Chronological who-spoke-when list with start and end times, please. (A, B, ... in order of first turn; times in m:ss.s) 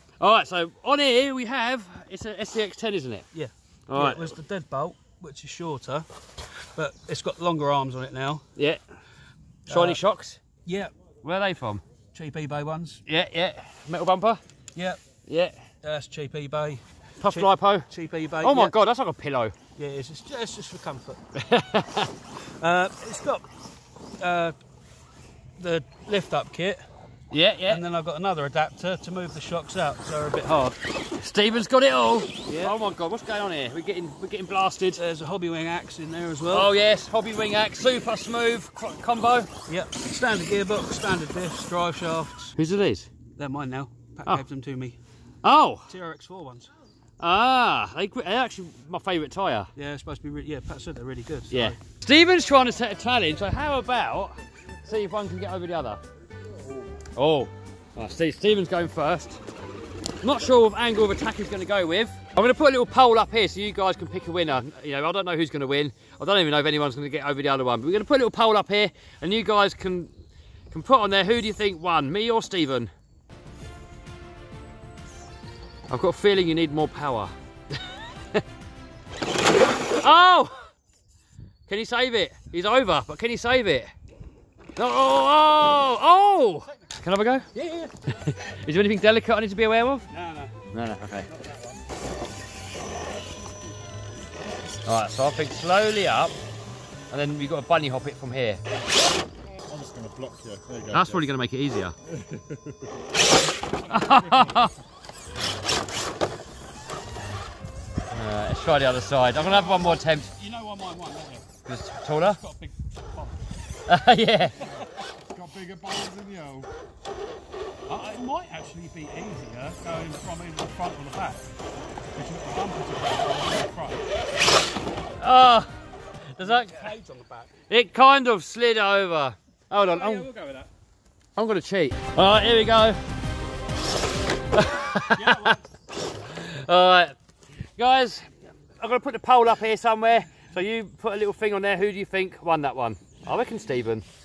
0:00.2-0:03.2 A
0:03.3-0:06.1 B
0:03.9-0:04.3 A
0:06.8-0:08.4 B
0:08.6-0:08.8 A
0:09.7-0:10.0 B
0:09.7-0:10.4 A
0:10.7-0:10.9 B
0:11.2-0:11.8 A
0:12.1-0:13.0 B
0:13.1-0:14.4 A
0:15.3-0:15.6 A
0:15.8-0:18.8 B
0:17.2-0:17.9 A
0:18.4-0:19.6 A
0:19.8-0:21.2 B
0:21.4-0:22.1 A
0:22.6-0:23.5 B
0:24.2-0:24.6 B
0:25.6-0:26.8 B
0:27.3-0:27.8 A
0:27.7-0:30.8 B
0:31.2-0:35.0 A
0:32.5-0:32.8 B
0:35.0-0:36.7 B
0:36.5-0:39.5 A
0:39.7-0:42.5 B
0:42.6-0:43.1 A
0:43.4-0:45.0 B
0:45.4-0:45.9 A
0:45.9-0:46.7 B
0:47.2-0:49.7 A
0:49.8-0:51.8 B
0:51.5-0:56.0 A
0:56.6-0:56.9 C
0:57.2-0:59.4 A
1:00.2-1:10.1 A
1:10.7-1:12.9 A
1:15.9-1:17.3 A
1:20.0-1:20.7 A
1:21.7-1:23.9 A
1:24.8-1:27.5 A
1:27.5-1:27.9 B
1:28.2-1:30.1 A
1:30.1-1:30.6 B
1:30.7-1:31.3 A
1:31.3-1:31.8 B
1:34.9-1:36.4 A
1:37.1-1:38.6 A
1:39.5-1:41.3 C
1:40.9-1:41.9 A
1:42.0-1:42.9 C
1:43.8-1:44.8 B
1:43.9-1:44.7 A
1:48.1-1:50.3 A
1:49.4-1:51.5 B
1:51.7-1:52.4 A
1:52.3-1:53.4 B
1:53.9-1:54.6 A
1:55.2-1:56.7 C
1:57.9-2:01.4 B
2:02.2-2:04.1 B
2:05.2-2:05.7 A
2:06.4-2:06.9 A
2:06.4-2:07.5 B
2:07.7-2:10.3 A
2:09.7-2:10.7 B
2:11.4-2:13.0 A
2:14.5-2:15.4 A
2:15.1-2:15.7 B
2:16.4-2:17.2 A
2:17.8-2:24.0 A